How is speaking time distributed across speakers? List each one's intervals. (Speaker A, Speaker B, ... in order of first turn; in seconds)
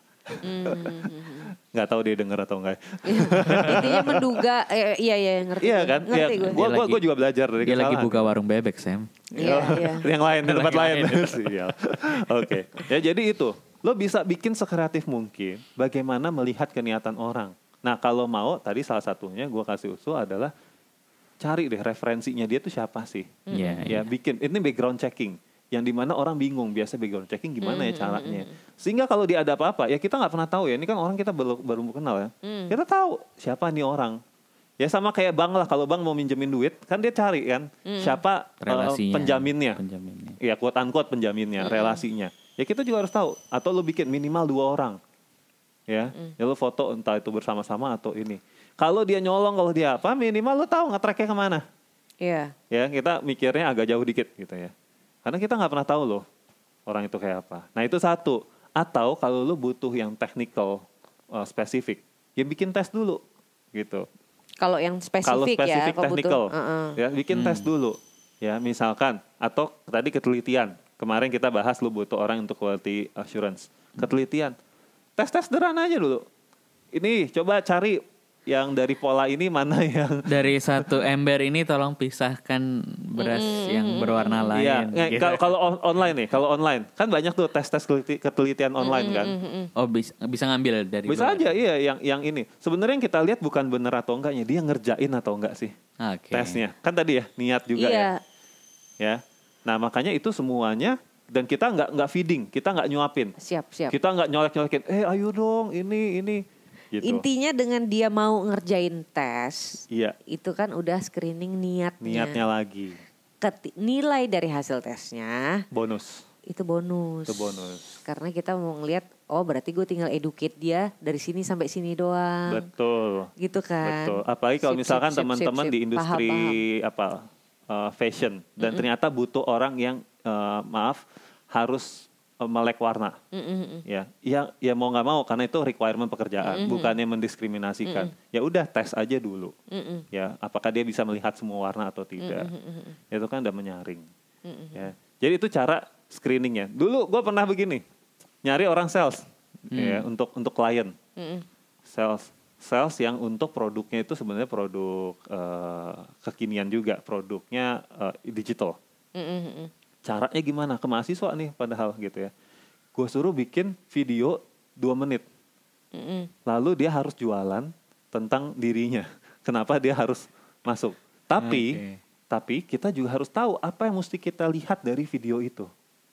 Speaker A: 0.3-1.0, 1.6-4.4, 5.6-8.3, 9.3-20.5, 21.4-34.2, 34.8-39.8, 40.4-45.0, 45.9-51.6, 52.7-54.7, 55.2-56.2, 56.9-63.2, 63.7-64.1, 65.2-74.5, 75.2-76.2, 76.9-80.9, 84.5-89.3, 91.1-95.7, 96.3-98.1, 99.0-103.3, 103.9-107.2, 109.9-110.2, 112.0-113.0, 115.7-116.2, 117.3-118.0, 122.5-123.3, 123.8-131.0, 131.5-133.2, 133.9-139.5, 140.1-142.5, 143.1-144.1, 144.7-147.8, 148.4-150.9, 151.9-158.8, 160.0-162.3, 162.9-165.2, 166.4-171.8, 172.3-175.7
Speaker B: 0.4-1.5, 3.1-6.6, 9.4-10.1, 23.5-24.0, 27.6-28.5, 32.4-32.8, 37.9-38.2, 41.6-42.0, 52.2-52.5, 64.6-67.0, 83.2-84.6, 88.8-89.7, 97.8-98.2, 103.4-104.0, 107.0-112.4, 113.4-115.6, 116.5-122.6, 123.4-126.6, 128.6-128.8, 133.3-133.8, 136.4-136.9, 137.9-138.1, 139.7-140.0, 142.2-143.0, 144.4-144.9, 151.2-151.4, 159.1-159.7, 165.9-166.3
Speaker C: 3.4-3.8, 6.5-7.0, 7.6-9.1, 10.4-11.6, 23.5-24.0, 38.6-40.4, 67.3-67.7, 80.2-85.4, 89.8-91.6, 96.0-96.6, 149.7-150.0, 171.4-172.0